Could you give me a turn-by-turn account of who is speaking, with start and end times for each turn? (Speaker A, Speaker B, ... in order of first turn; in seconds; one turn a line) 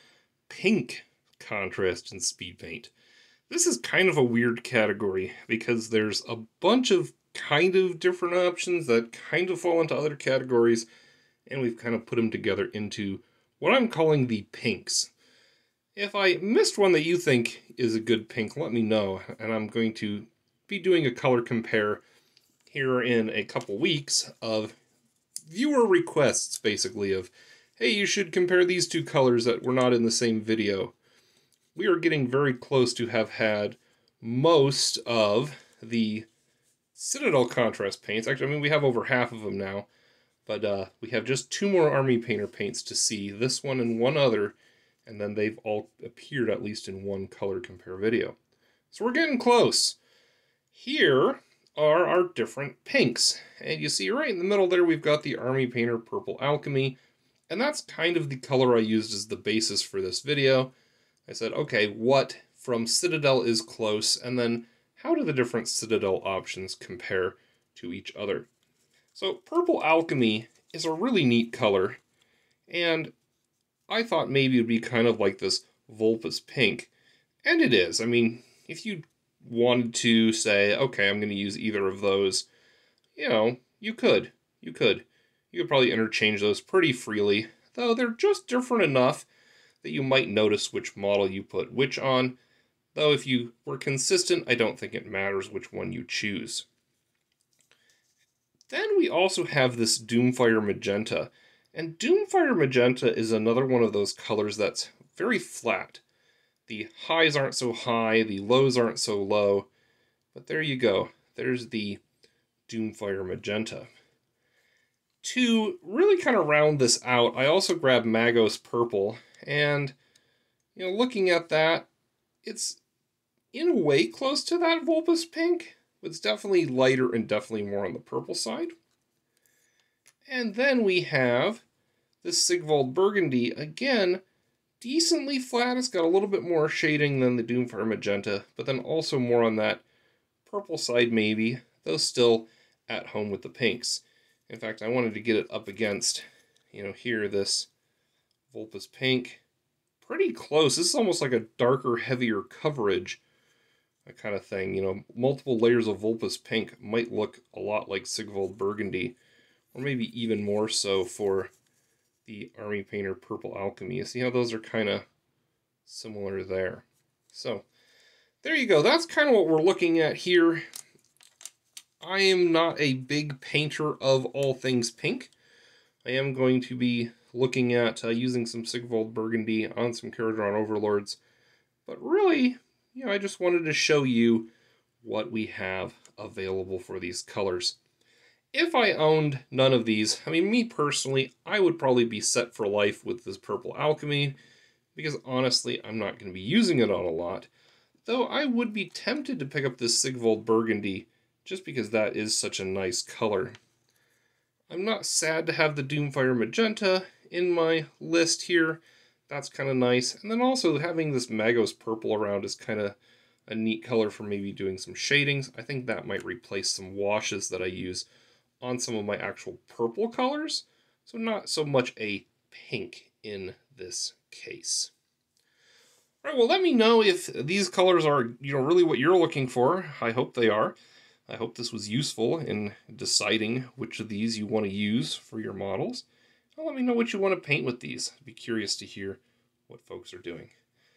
Speaker A: 0.5-2.9
Speaker A: 3.5-10.9
Speaker A: 11.5-15.1
Speaker A: 16.0-22.0
Speaker A: 22.7-24.8
Speaker A: 25.5-30.9
Speaker A: 31.8-36.3
Speaker A: 37.0-39.9
Speaker A: 40.5-48.4
Speaker A: 48.9-50.0
Speaker A: 50.7-57.0
Speaker A: 57.5-60.7
Speaker A: 61.3-68.5
Speaker A: 69.1-72.0
Speaker A: 72.7-73.1
Speaker A: 73.9-76.9
Speaker A: 77.4-82.5
Speaker A: 83.2-89.3
Speaker A: 89.8-92.4
Speaker A: 92.9-96.7
Speaker A: 98.7-106.0
Speaker A: 106.7-109.7
Speaker A: 110.3-112.0
Speaker A: 112.7-113.9
Speaker A: 115.2-120.0
Speaker A: 120.8-121.9
Speaker A: 122.4-122.8
Speaker A: 123.5-128.7
Speaker A: 130.3-131.6
Speaker A: 132.2-134.2
Speaker A: 134.8-139.8
Speaker A: 140.5-147.7
Speaker A: 148.5-149.4
Speaker A: 150.0-153.2
Speaker A: 154.1-159.2
Speaker A: 159.7-161.5
Speaker A: 162.2-165.1
Speaker A: 165.9-167.7
Speaker A: 168.4-170.7
Speaker A: 172.0-175.3
Speaker A: 176.0-181.2
Speaker A: 181.9-184.5
Speaker A: 185.0-187.8
Speaker A: 188.5-194.4
Speaker A: 194.9-197.5
Speaker A: 198.1-203.6
Speaker A: 204.7-218.1
Speaker A: 218.6-224.9
Speaker A: 226.2-230.8
Speaker A: 231.3-236.1
Speaker A: 236.6-240.5